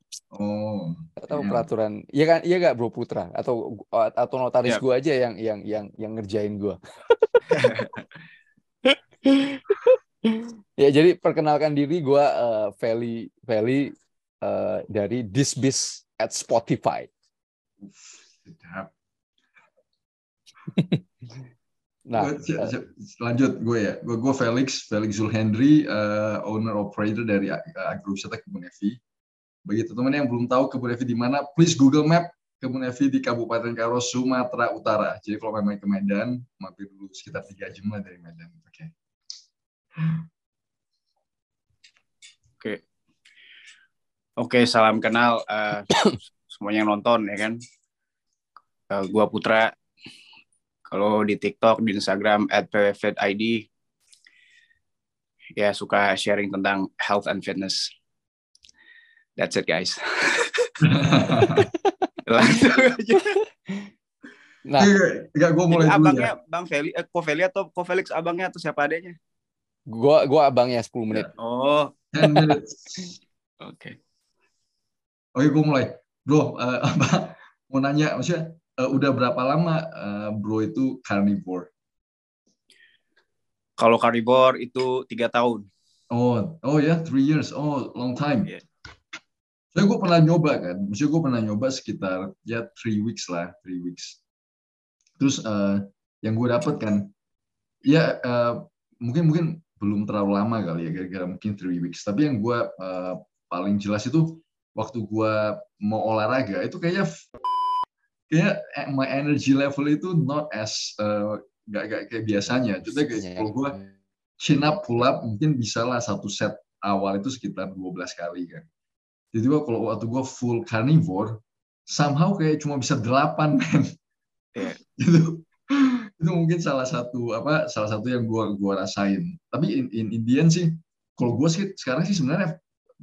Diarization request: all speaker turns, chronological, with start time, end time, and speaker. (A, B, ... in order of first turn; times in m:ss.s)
0:00.3-0:01.7 A
0:01.2-0:06.8 B
0:07.5-0:07.9 C
0:08.9-0:17.1 B
0:17.8-0:18.9 A
0:20.7-0:21.0 B
0:22.1-0:22.7 B
0:22.2-0:29.0 A
0:29.6-0:38.9 A
0:40.0-0:40.2 A
0:44.4-0:45.9 C
0:45.9-0:46.2 B
0:46.5-0:47.6 C
0:48.9-0:49.7 C
0:50.9-0:53.7 C
0:55.6-0:57.9 C
0:59.4-1:00.8 C
1:00.8-1:01.7 A
1:01.5-1:02.1 B
1:02.3-1:03.4 C
1:04.6-1:04.9 B
1:04.8-1:06.3 A
1:05.7-1:09.2 C
1:09.9-1:11.3 B
1:11.4-1:11.9 C
1:12.1-1:13.1 A
1:12.2-1:12.5 B
1:13.6-1:14.0 C
1:15.4-1:21.7 A
1:23.8-1:25.7 C
1:26.1-1:28.5 A
1:29.7-1:34.2 A
1:35.2-1:37.1 A
1:37.8-1:47.2 A
1:48.3-1:53.8 A
1:53.0-1:53.9 B
1:54.4-1:58.7 A
1:59.3-2:03.9 A
2:05.0-2:12.6 A